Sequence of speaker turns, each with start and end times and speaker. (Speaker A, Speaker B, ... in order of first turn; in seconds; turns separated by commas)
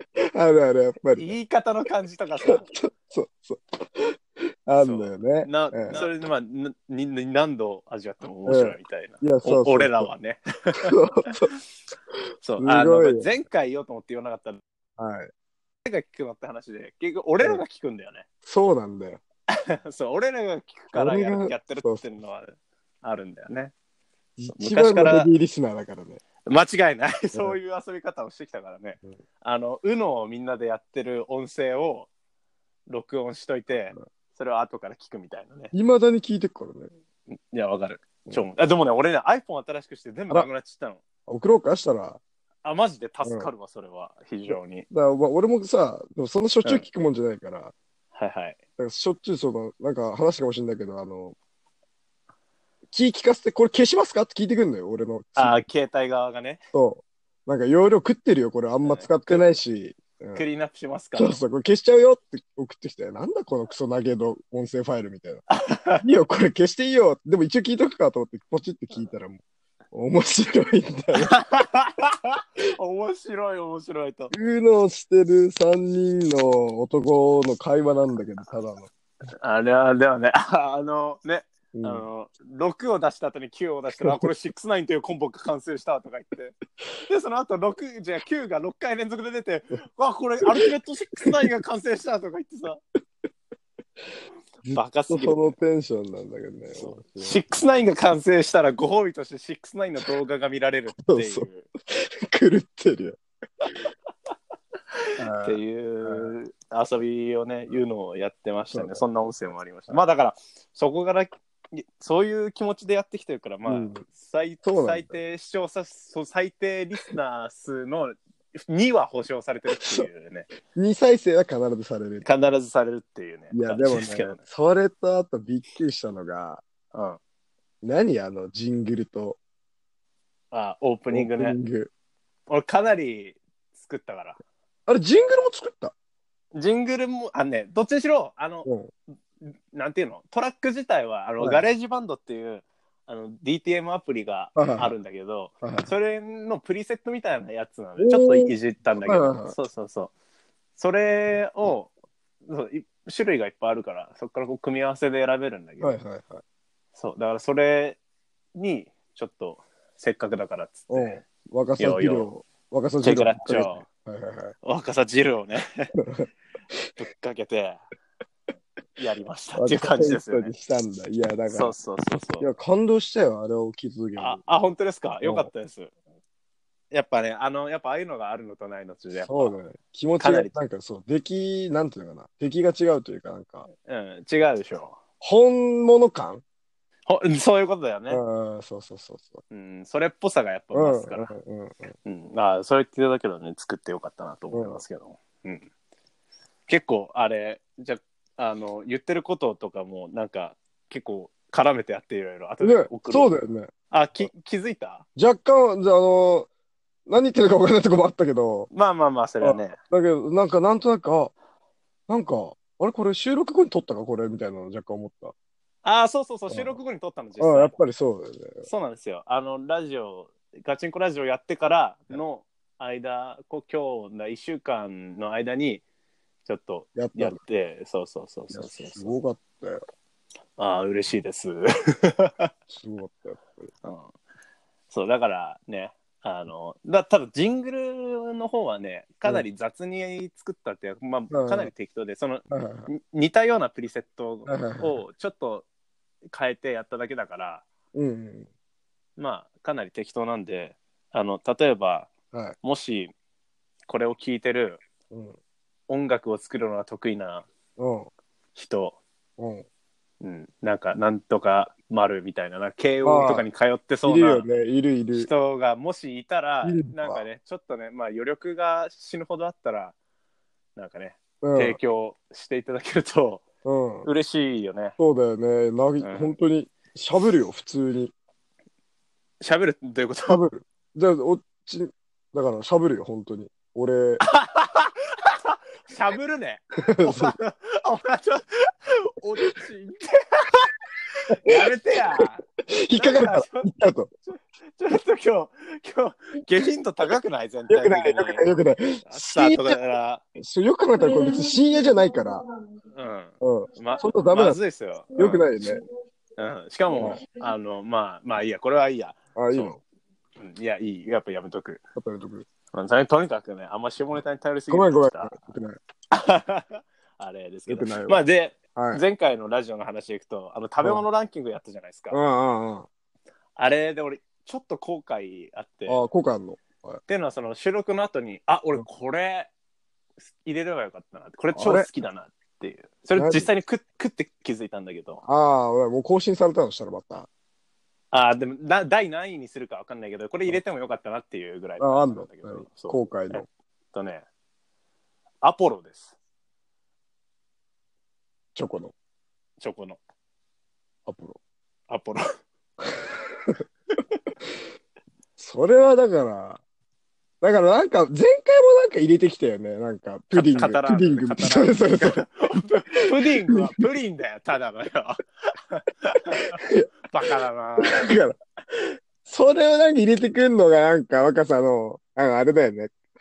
Speaker A: 0.2-1.3, Speaker B: 1.1-2.7, Speaker A: 2.5-4.2, Speaker A: 4.7-6.0, Speaker B: 4.8-11.3, Speaker A: 8.5-10.1, Speaker A: 10.8-11.5, Speaker B: 12.4-14.6, Speaker A: 12.6-13.3, Speaker A: 15.0-15.3, Speaker B: 15.8-18.2, Speaker A: 18.4-19.2, Speaker B: 19.5-23.7, Speaker A: 20.9-22.0, Speaker A: 24.4-26.2, Speaker B: 24.5-25.3, Speaker B: 26.4-32.1, Speaker B: 32.9-35.7, Speaker A: 35.7-36.9, Speaker B: 37.3-41.0, Speaker A: 41.3-42.2, Speaker B: 42.6-44.9, Speaker A: 43.2-43.5, Speaker A: 44.5-47.7, Speaker B: 48.1-48.6, Speaker A: 48.8-51.4, Speaker A: 52.9-55.6, Speaker B: 55.4-56.6, Speaker A: 56.7-60.4, Speaker B: 58.8-59.4, Speaker B: 60.3-61.4, Speaker A: 61.1-65.4, Speaker B: 65.5-66.0, Speaker A: 66.0-69.4, Speaker A: 69.9-71.3, Speaker B: 71.1-74.3, Speaker A: 74.3-78.9, Speaker B: 79.4-86.5, Speaker A: 81.7-82.0, Speaker A: 84.0-84.3, Speaker B: 87.1-92.8, Speaker A: 94.6-97.4, Speaker B: 94.7-95.5, Speaker B: 96.8-101.7, Speaker A: 101.0-103.2, Speaker A: 105.2-106.3, Speaker B: 105.4-120.5, Speaker A: 108.7-109.0, Speaker A: 113.7-114.0, Speaker A: 114.6-115.1, Speaker A: 119.7-120.1, Speaker A: 120.7-122.3, Speaker B: 122.2-124.4, Speaker A: 123.5-126.6, Speaker B: 126.9-127.2, Speaker A: 127.8-129.4, Speaker B: 130.5-131.6, Speaker A: 131.1-131.9, Speaker B: 132.5-134.4, Speaker A: 134.9-135.9, Speaker B: 136.5-138.7, Speaker A: 138.7-138.9, Speaker B: 139.4-150.1, Speaker A: 144.6-144.9, Speaker A: 145.6-145.9, Speaker A: 148.0-148.5, Speaker A: 149.0-149.5, Speaker B: 150.8-151.9, Speaker B: 152.5-156.0, Speaker A: 155.8-156.4, Speaker B: 156.9-158.0, Speaker B: 158.5-161.2, Speaker A: 160.9-164.5, Speaker B: 161.8-162.3, Speaker B: 163.0-163.8, Speaker B: 164.6-165.9, Speaker A: 166.0-166.3, Speaker B: 166.9-167.8, Speaker B: 168.9-170.5, Speaker A: 169.6-171.7, Speaker B: 171.5-172.5, Speaker A: 172.4-174.4, Speaker B: 174.2-175.9, Speaker A: 175.2-175.5, Speaker B: 176.9-179.5, Speaker A: 179.2-183.7, Speaker B: 180.2-180.5, Speaker B: 183.8-185.0, Speaker A: 185.2-186.4, Speaker B: 187.1-188.2, Speaker A: 188.1-189.4, Speaker B: 189.5-191.3, Speaker A: 190.7-191.9, Speaker B: 192.0-195.7, Speaker A: 194.5-194.8, Speaker B: 196.7-203.3, Speaker A: 202.6-203.7, Speaker B: 203.9-205.0, Speaker A: 205.2-206.5, Speaker A: 207.1-208.7, Speaker B: 208.7-209.8, Speaker A: 209.4-211.3, Speaker A: 212.1-215.3, Speaker B: 215.8-217.8, Speaker A: 216.5-216.7, Speaker A: 217.4-218.6, Speaker B: 218.6-225.8, Speaker B: 226.4-229.1, Speaker A: 226.9-227.4, Speaker A: 228.5-229.8, Speaker B: 230.6-232.5, Speaker A: 232.7-233.7, Speaker B: 233.8-234.1, Speaker B: 234.9-245.7, Speaker A: 241.3-241.7, Speaker A: 242.5-242.9, Speaker A: 244.5-245.0, Speaker B: 246.3-247.6, Speaker A: 247.9-248.5, Speaker B: 249.2-252.1, Speaker B: 252.6-253.1, Speaker B: 253.9-254.8, Speaker A: 255.1-255.4, Speaker B: 255.9-257.5, Speaker A: 257.8-258.1, Speaker B: 258.5-259.0, Speaker A: 259.4-259.6, Speaker B: 260.2-264.5, Speaker A: 263.0-263.4, Speaker A: 264.0-265.3, Speaker B: 265.1-269.9, Speaker A: 266.6-267.2, Speaker B: 270.8-273.4, Speaker A: 271.4-271.8, Speaker A: 273.6-274.1, Speaker B: 274.0-274.9, Speaker A: 275.0-278.1, Speaker B: 276.0-276.3, Speaker B: 279.4-280.4, Speaker A: 280.3-284.2, Speaker B: 284.2-290.7, Speaker A: 286.8-287.3, Speaker A: 291.3-291.6, Speaker B: 291.3-293.7, Speaker A: 292.2-294.1, Speaker B: 294.3-298.5, Speaker A: 297.7-299.8, Speaker B: 299.1-300.2, Speaker A: 300.4-302.4, Speaker B: 302.9-305.5, Speaker A: 303.4-304.6, Speaker A: 305.1-305.8, Speaker B: 306.4-309.7, Speaker A: 306.9-307.2, Speaker A: 309.4-309.8, Speaker B: 310.4-311.8, Speaker A: 311.9-312.4, Speaker B: 312.7-315.3, Speaker A: 314.7-315.8, Speaker B: 316.1-322.2, Speaker A: 317.7-318.2, Speaker A: 318.7-319.0, Speaker A: 322.1-322.9, Speaker B: 323.6-326.0, Speaker A: 325.9-327.0, Speaker B: 327.1-329.5, Speaker B: 330.4-335.2, Speaker A: 331.5-331.9, Speaker A: 333.1-333.5, Speaker A: 335.2-337.3, Speaker B: 338.1-344.2, Speaker A: 341.8-343.4, Speaker B: 345.4-346.1, Speaker A: 348.5-348.9, Speaker B: 349.6-350.0, Speaker A: 351.1-351.4, Speaker B: 351.9-352.2, Speaker A: 352.8-353.6, Speaker A: 355.4-356.6, Speaker A: 357.4-362.2, Speaker B: 360.3-368.1, Speaker A: 363.2-363.8, Speaker A: 366.5-366.9, Speaker A: 367.8-368.4, Speaker A: 369.2-372.9